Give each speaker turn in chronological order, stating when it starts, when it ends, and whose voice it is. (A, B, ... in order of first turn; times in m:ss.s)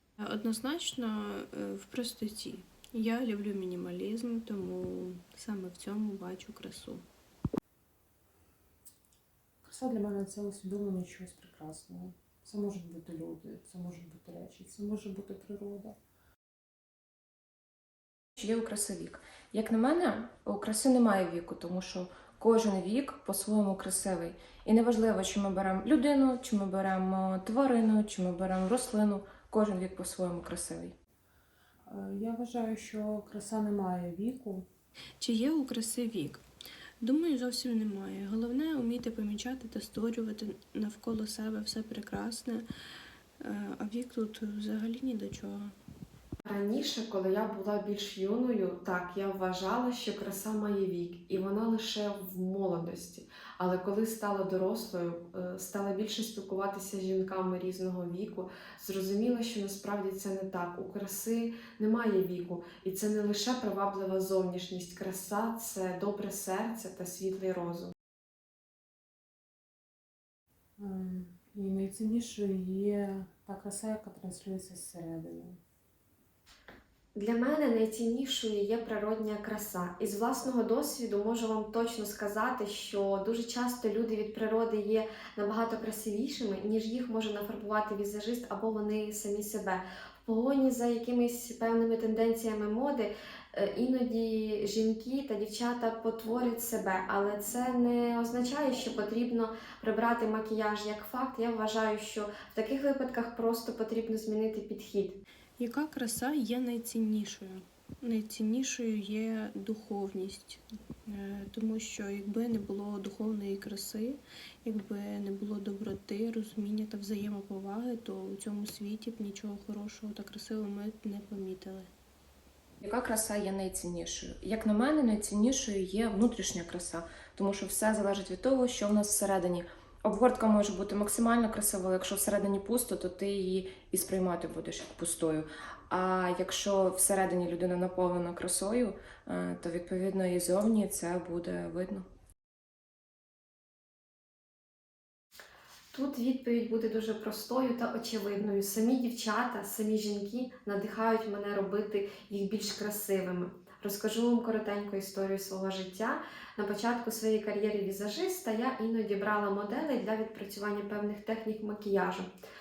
0:00.2-0:07.1 A
0:09.6-0:16.0 B
0:18.4-0:31.0 C
0:31.9-0:34.7 B
0:35.2-0:36.4 A
0:37.0-0:42.7 A
0:43.4-0:45.8 A
0:46.4-1:07.9 D
1:10.8-1:15.6 B
1:17.2-1:45.2 D
1:45.6-2:01.9 A
2:02.8-2:22.1 C
2:25.9-2:42.3 D